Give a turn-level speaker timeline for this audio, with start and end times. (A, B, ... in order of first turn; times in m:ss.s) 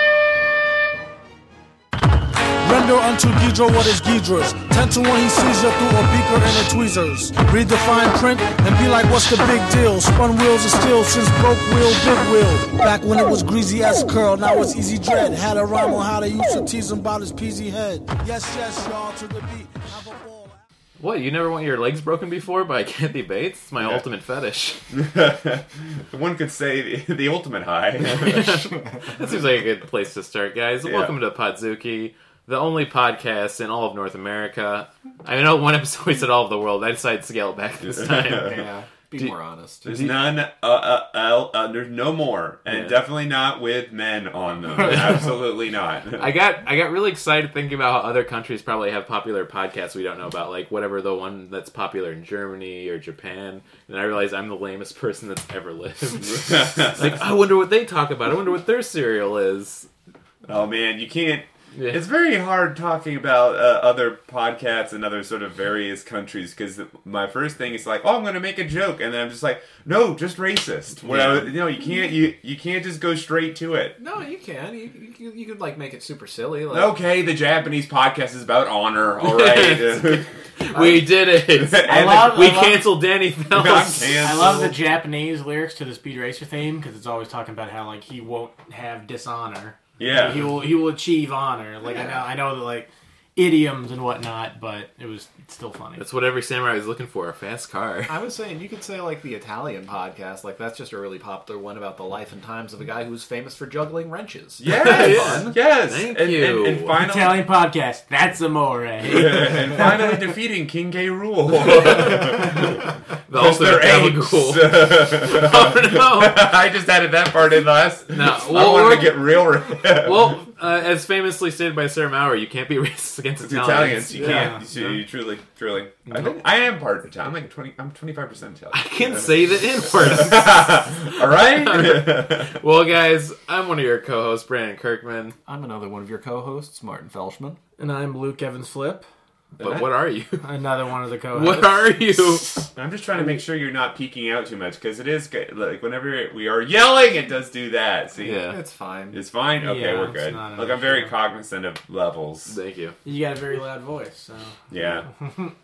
0:02.6-0:20.6 A
0:21.0-0:24.8 B
0:24.9-0:28.7 C
0:28.0-0:38.6 B
0:30.8-0:31.1 C
0:37.8-0:38.7 C
0:38.4-0:40.1 D
0:39.8-0:46.3 C
0:42.7-0:43.0 B
0:46.2-0:59.9 B
0:56.2-0:57.2 C
1:00.4-1:14.0 C
1:01.8-1:02.0 B
1:11.0-1:11.6 B
1:14.0-1:17.0 D
1:16.7-1:20.3 C
1:19.2-1:24.4 B
1:20.8-1:21.1 D
1:21.5-1:22.6 C
1:21.8-1:22.9 E
1:23.5-1:24.8 C
1:24.2-1:36.0 E
1:30.0-1:30.5 C
1:36.0-1:38.2 B
1:38.1-1:45.5 D
1:44.6-1:47.5 C
1:44.6-1:47.0 B
1:47.0-1:50.1 E
1:49.0-2:00.4 C
1:53.3-1:56.5 B
1:58.1-2:05.0 B
2:03.4-2:12.6 C
2:04.2-2:04.6 E
2:06.1-2:06.4 B
2:08.7-2:15.4 B
2:15.5-2:17.6 D
2:17.8-2:19.0 E
2:19.6-2:19.9 C
2:19.6-2:20.4 B
2:20.4-2:21.9 E
2:21.3-2:22.6 B
2:22.7-2:28.4 C
2:28.2-2:28.6 B
2:28.3-2:29.2 D
2:29.1-2:32.6 C
2:29.6-2:31.1 E
2:32.5-2:33.0 B
2:33.0-2:34.6 E
2:34.7-2:35.1 C